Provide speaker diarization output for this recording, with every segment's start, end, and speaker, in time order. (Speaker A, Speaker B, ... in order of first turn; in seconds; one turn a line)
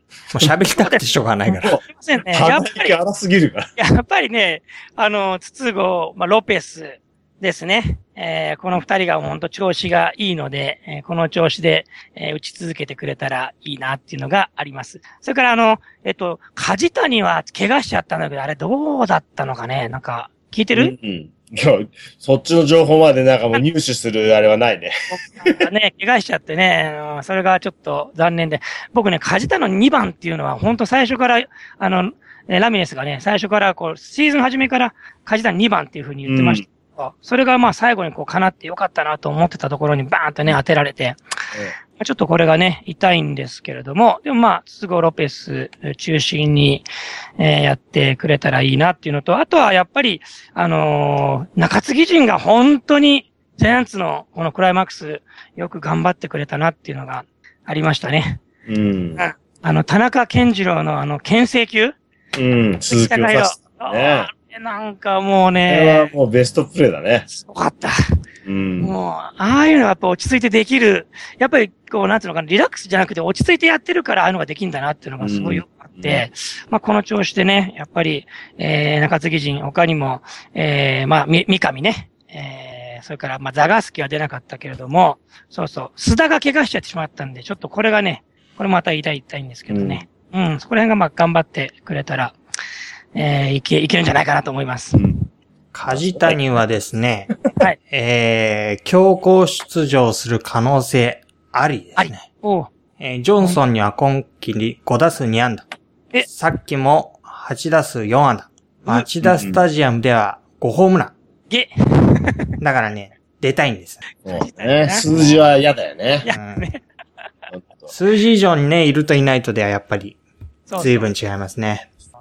Speaker A: 0.3-1.8
Speaker B: 0.7-3.0
Speaker C: 1.6-3.7
Speaker B: 3.8-20.9
Speaker C: 20.7-25.6
Speaker B: 25.1-41.2
Speaker C: 36.3-36.6
Speaker B: 41.9-46.8
Speaker B: 47.4-58.4
Speaker C: 58.6-59.2
Speaker B: 59.2-62.0
Speaker C: 62.3-64.3
Speaker B: 62.9-66.1
Speaker C: 65.7-67.3
Speaker B: 67.3-68.0
Speaker C: 68.4-69.0
Speaker B: 68.8-92.3
Speaker C: 75.2-76.2
Speaker C: 89.7-90.0
Speaker B: 93.1-95.1
Speaker A: 95.7-97.3
Speaker C: 95.9-96.4
Speaker A: 97.9-102.3
Speaker B: 102.0-102.7
Speaker A: 103.0-105.7
Speaker A: 106.2-111.1
Speaker C: 109.2-109.6
Speaker B: 111.5-112.5
Speaker A: 112.6-114.0
Speaker C: 114.2-116.2
Speaker B: 114.3-115.1
Speaker A: 115.1-115.4
Speaker B: 116.2-116.8
Speaker A: 116.3-116.6
Speaker C: 117.5-117.9
Speaker A: 117.9-120.2
Speaker B: 120.7-121.1
Speaker A: 120.8-121.9